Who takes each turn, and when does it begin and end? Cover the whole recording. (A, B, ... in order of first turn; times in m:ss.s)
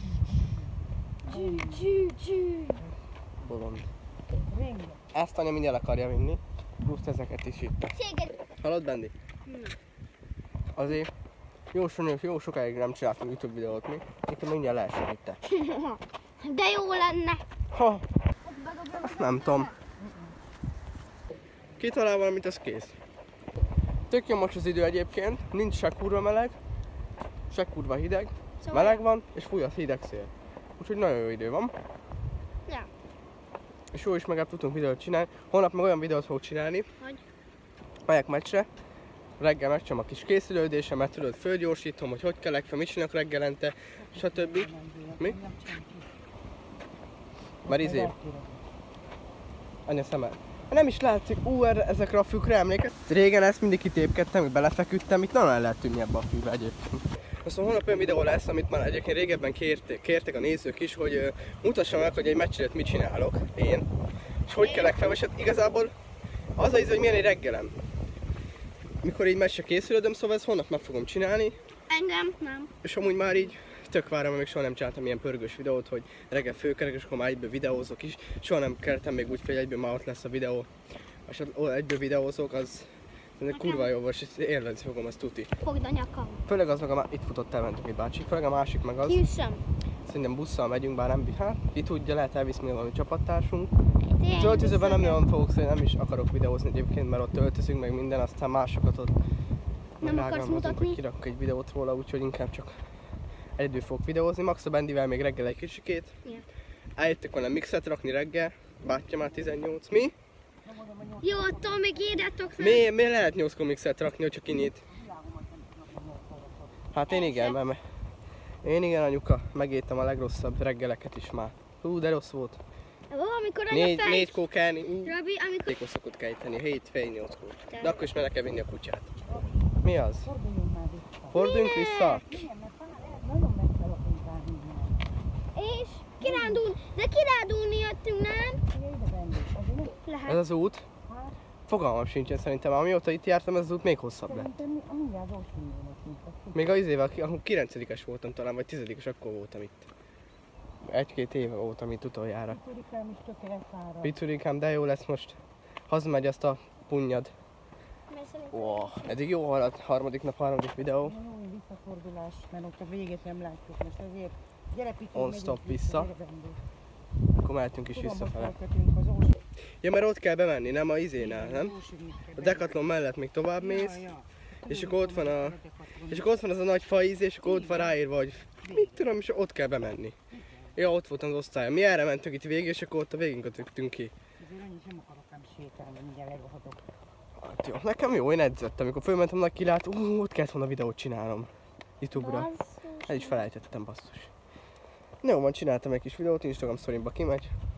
0:01.2-0:02.8 A
0:01.3-0:01.9 B
0:03.4-0:03.9 C
0:04.5-0:05.1 B
0:05.1-0:08.0 C
0:07.9-0:08.4 A
0:08.6-0:09.1 C
0:09.5-0:09.8 A
0:10.7-0:11.1 C
0:11.7-0:15.4 C
0:15.5-0:17.4 A
0:17.7-0:18.1 C
0:18.4-0:19.8 A
0:18.9-0:19.7 C
0:20.0-0:20.3 B
0:21.8-0:23.0 C
0:24.1-0:26.6 C
0:27.5-0:31.7 C
0:28.6-0:29.0 A
0:33.9-0:36.9 C
0:38.1-0:38.7 C
0:39.4-0:45.4 C
0:44.0-0:46.1 B
0:47.7-0:48.1 C
0:47.7-0:48.6 B
0:49.9-1:03.9 C
1:04.5-1:05.9 C
1:04.6-1:04.9 A
1:06.6-1:07.8 C
1:09.0-1:11.6 C
1:11.9-1:12.7 A
1:12.8-1:20.7 C
1:21.3-1:25.5 C
1:23.5-1:23.9 A
1:25.6-1:26.4 A
1:26.5-1:29.2 C
1:29.0-1:29.6 A
1:30.0-1:33.7 C
1:34.0-1:35.2 A
1:34.4-1:39.2 C
1:40.0-1:42.8 C
1:40.0-1:41.0 A
1:43.6-1:46.2 C
1:47.0-1:50.2 C
1:50.6-1:52.8 B
1:51.2-1:52.9 A
1:52.6-1:54.8 C
1:54.9-1:56.9 B
1:56.9-1:57.8 C
1:57.1-1:57.6 A
1:58.6-2:02.6 C
2:03.1-2:04.4 A
2:03.7-2:05.2 C
2:05.0-2:05.8 A
2:05.7-2:09.1 C
2:09.3-2:11.4 B
2:09.8-2:10.3 C
2:11.3-2:12.3 C
2:11.3-2:12.4 A
2:12.2-2:15.1 B
2:15.6-2:18.6 A
2:16.2-2:16.6 B
2:18.7-2:20.0 B
2:20.0-2:20.4 A
2:20.3-2:20.9 C
2:21.1-2:21.4 B
2:21.7-2:24.5 C
2:24.3-2:26.7 B
2:26.5-2:29.9 C
2:30.8-2:32.6 C
2:32.5-2:34.2 B
2:34.0-2:37.3 C
2:38.1-2:39.2 A
2:38.5-2:41.2 C
2:41.0-2:46.6 B
2:45.1-2:46.1 C
2:47.4-2:48.6 C
2:47.9-2:49.4 B
2:49.8-2:51.8 C
2:51.2-2:52.8 B
2:52.4-2:54.1 C
2:53.6-2:56.3 B
2:54.7-3:00.2 C
2:57.4-2:58.0 B
2:58.6-2:59.0 B
3:00.3-3:00.8 B
3:00.7-3:04.1 C
3:04.4-3:06.8 B
3:07.4-3:12.5 C
3:12.1-3:13.4 A
3:13.1-3:14.3 C
3:15.2-3:17.6 C